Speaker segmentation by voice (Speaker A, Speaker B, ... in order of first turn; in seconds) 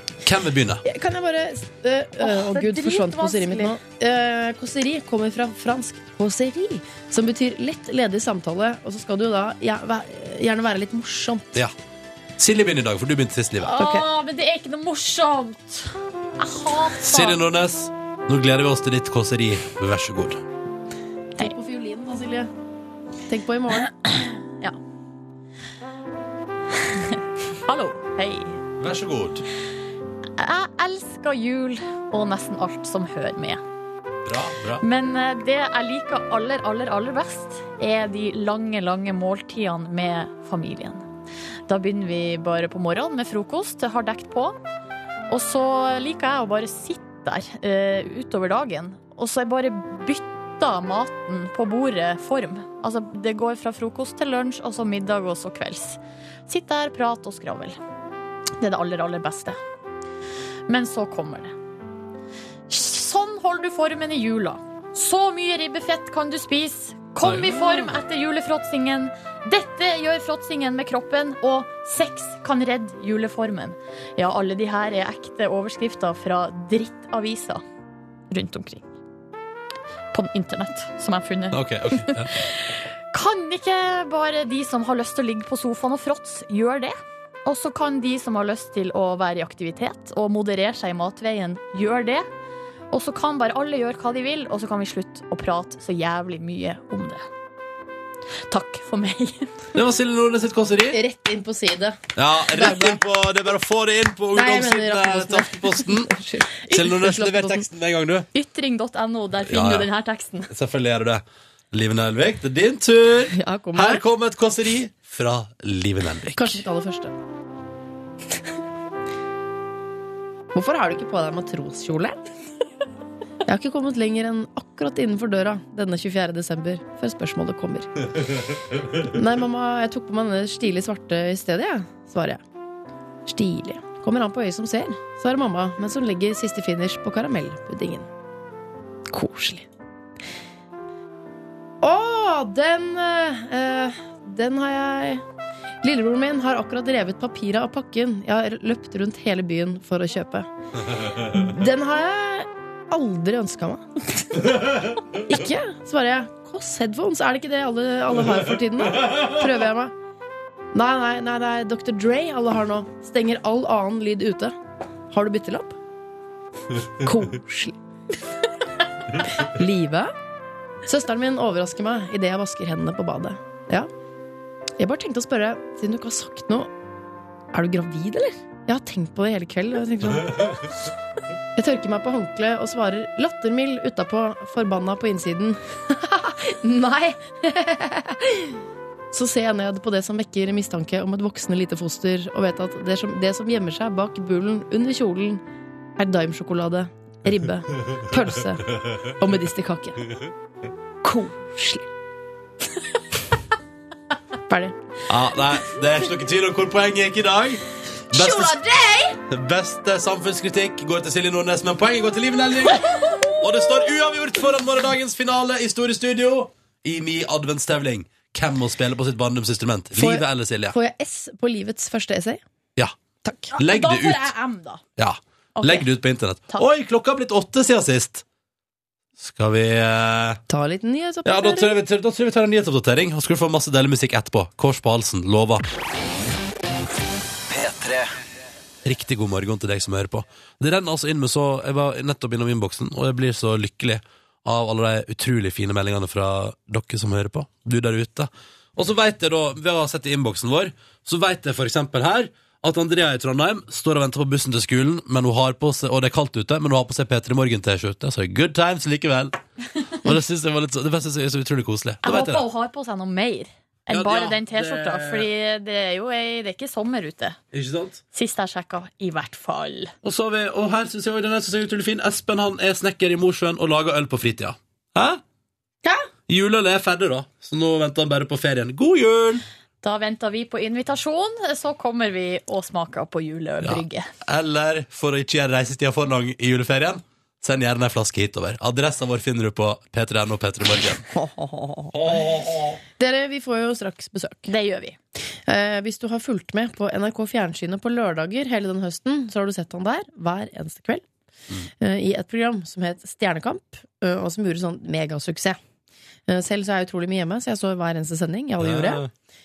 Speaker A: 0.2-0.8, 12.4-13.8, 17.0-20.4, 28.8-29.4, 34.2-34.8, 67.2-67.9, 81.5-82.3, 99.7-101.0, 102.2-106.1, 106.7-108.3, 109.5-109.9, 110.5-116.6, 205.1-208.6, 209.3-220.8, 223.6-224.3, 225.0-228.2, 229.2-230.4, 231.2-235.6, 237.5-238.0, 238.8-259.4, 260.0-262.4, 263.9-265.3, 267.5-268.0, 270.0-275.2, 276.3-279.4, 283.6-291.1, 291.9-292.8, 308.6-309.1
Speaker B: 0.8-11.6, 21.4-22.5, 23.3-23.9, 100.9-102.0, 102.5-103.0, 104.3-107.6, 113.3-114.0, 116.3-117.1, 120.5-122.2, 123.5-128.0, 128.9-132.4, 133.2-138.1, 139.1-139.7, 141.8-145.2, 145.8-150.5, 151.2-159.9, 160.7-164.6, 165.1-165.8, 167.0-167.8, 169.3-170.1, 170.8-173.9, 174.8-176.7, 177.5-180.7, 181.6-188.6, 189.1-195.4, 196.0-200.0, 201.0-201.9, 204.5-204.8, 208.1-209.2, 219.9-222.4, 223.2-223.5, 230.5-231.8, 291.1-291.9, 293.0-294.5, 295.4-301.0, 301.8-305.6, 306.3-309.0
Speaker C: 2.2-3.8, 13.6-17.4, 24.0-24.8, 26.9-28.6, 30.4-33.6, 34.8-41.0, 41.7-44.6, 45.3-57.8, 58.6-59.6, 60.7-61.5, 62.7-77.6, 78.3-78.8, 80.1-92.2, 92.9-97.2, 98.5-99.5, 108.3-110.5, 223.5-224.8, 225.6-225.8, 262.0-267.4, 268.1-269.9, 279.8-284.1, 294.5-295.0